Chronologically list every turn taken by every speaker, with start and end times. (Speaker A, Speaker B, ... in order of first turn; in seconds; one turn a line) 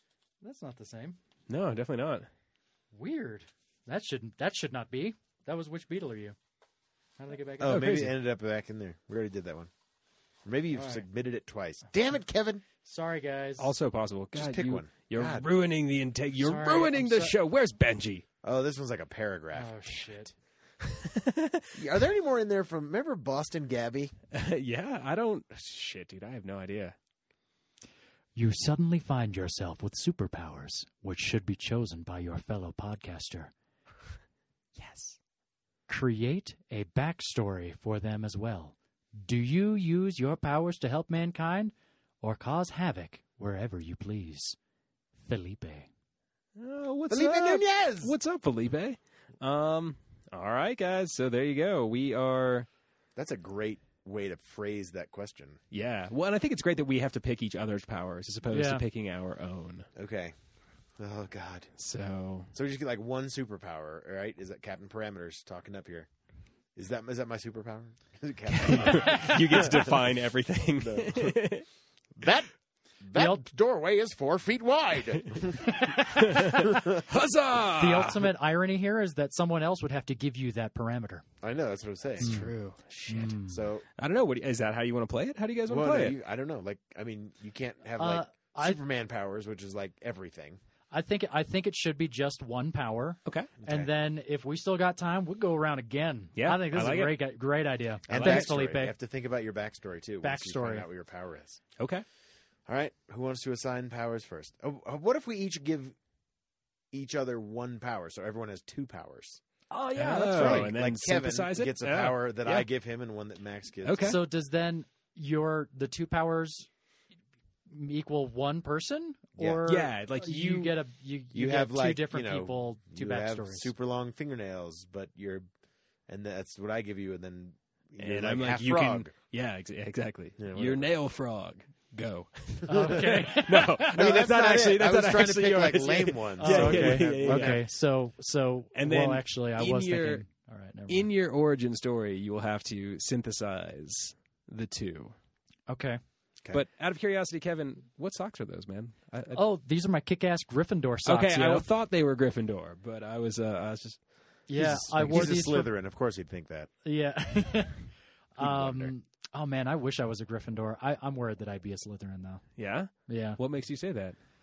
Speaker A: 0.4-1.2
Speaker B: 1.5-2.3
Speaker A: 2.9-6.3
Speaker A: 7.2-8.1
Speaker C: 7.6-9.7
Speaker B: 7.6-8.1
Speaker C: 10.4-12.6
Speaker A: 10.7-11.0
Speaker A: 12.8-13.7
Speaker B: 13.6-18.2
Speaker C: 14.3-15.5
Speaker A: 16.4-17.3
Speaker C: 18.4-19.7
Speaker A: 19.5-20.3
Speaker B: 20.8-21.8
Speaker C: 21.7-24.1
Speaker B: 24.3-26.9
Speaker A: 28.3-33.5
Speaker B: 34.8-35.2
Speaker A: 35.9-44.6
Speaker A: 45.2-45.9
Speaker B: 46.5-52.7
Speaker C: 47.1-48.1
Speaker C: 53.1-55.6
Speaker B: 55.7-59.9
Speaker A: 58.5-58.8
Speaker C: 59.9-60.3
Speaker C: 61.0-61.7
Speaker B: 61.8-62.5
Speaker C: 62.5-66.1
Speaker C: 66.7-70.1
Speaker B: 68.5-71.7
Speaker C: 70.8-71.4
Speaker C: 72.2-72.5
Speaker C: 73.0-75.8
Speaker A: 73.1-73.5
Speaker B: 75.1-78.3
Speaker A: 75.6-77.0
Speaker C: 76.7-77.0
Speaker A: 77.7-81.2
Speaker C: 81.4-83.8
Speaker B: 82.2-83.3
Speaker A: 82.2-82.5
Speaker A: 83.1-83.6
Speaker B: 84.0-86.2
Speaker C: 85.7-90.6
Speaker A: 88.0-88.8
Speaker A: 90.9-98.9
Speaker B: 93.2-93.5
Speaker C: 93.6-93.9
Speaker B: 96.3-97.2
Speaker C: 98.1-101.6
Speaker B: 98.1-98.5
Speaker A: 100.2-100.9
Speaker B: 101.8-102.0
Speaker C: 102.7-106.0
Speaker C: 106.9-109.4
Speaker A: 109.7-110.7
Speaker B: 109.9-112.7
Speaker C: 110.2-114.1
Speaker B: 113.8-114.2
Speaker A: 114.0-116.7
Speaker A: 117.7-123.7
Speaker C: 119.4-119.6
Speaker B: 119.7-120.8
Speaker C: 121.3-125.4
Speaker C: 126.1-129.1
Speaker B: 128.0-137.7
Speaker C: 130.4-130.9
Speaker A: 132.7-134.1
Speaker C: 132.7-133.3
Speaker C: 133.9-137.7
Speaker A: 136.4-141.1
Speaker B: 138.7-140.2
Speaker B: 140.9-145.1
Speaker A: 145.7-146.0
Speaker B: 146.5-149.4
Speaker A: 149.3-151.7
Speaker B: 151.0-154.0
Speaker A: 154.5-155.7
Speaker B: 154.6-155.3
Speaker C: 154.6-156.7
Speaker A: 156.8-162.4
Speaker C: 158.4-158.9
Speaker B: 162.6-164.2
Speaker A: 163.1-163.4